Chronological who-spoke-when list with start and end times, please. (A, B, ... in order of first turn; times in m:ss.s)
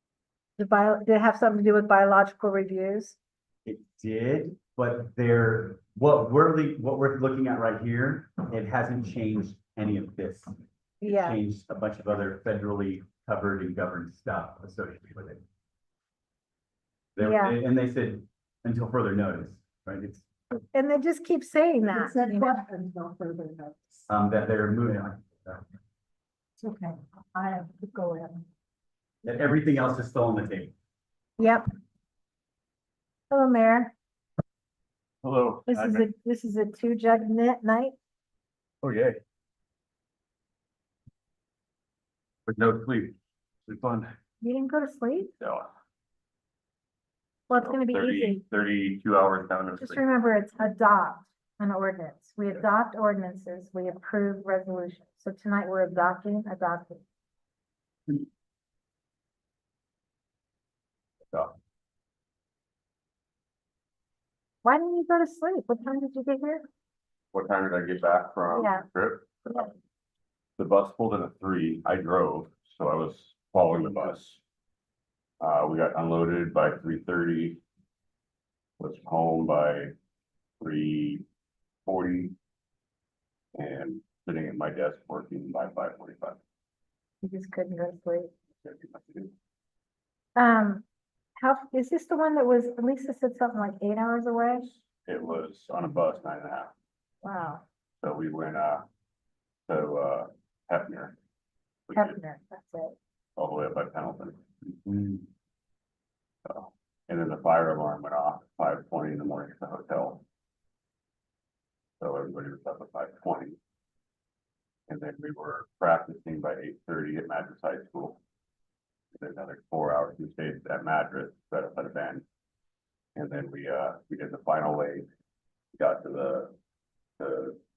0:00.6-0:03.2 A
0:03.7-0:10.5 B
0:11.0-0:11.4 A
0:11.0-0:15.4 B
0:17.2-0:20.3 B
0:17.2-0:17.6 A
0:20.7-0:22.6 A
0:21.8-0:24.0 C
0:24.1-0:25.6 B
0:26.6-0:28.5 C
0:29.2-0:30.7 B
0:31.4-0:31.6 A
0:33.3-0:33.9 A
0:35.2-0:36.0 D
0:35.7-0:38.0 A
0:38.8-0:39.2 D
0:42.5-0:43.1 D
0:43.7-0:44.0 D
0:44.4-0:45.3 A
0:45.4-0:45.7 D
0:47.5-0:48.4 A
0:47.5-0:50.0 D
0:49.8-0:57.0 A
1:04.6-1:06.7 A
1:07.3-1:09.8 D
1:08.5-1:08.8 A
1:10.6-1:14.4 D
1:15.4-1:17.6 D
1:18.8-1:19.9 D
1:20.6-1:21.2 D
1:21.9-1:22.4 D
1:23.6-1:26.4 D
1:27.2-1:28.3 A
1:28.6-1:29.3 D
1:30.4-1:30.8 A
1:31.4-1:34.8 A
1:35.1-1:36.7 D
1:37.2-1:37.6 A
1:38.0-1:38.8 D
1:39.7-1:41.2 D
1:41.9-1:42.2 D
1:42.0-1:43.0 A
1:43.4-1:44.4 D
1:44.7-1:45.2 B
1:46.4-1:50.2 D
1:52.0-1:53.6 D
1:54.9-1:58.2 D
1:59.2-2:02.2 D
2:03.2-2:05.1 D
2:05.8-2:06.6 D
2:07.2-2:07.6 D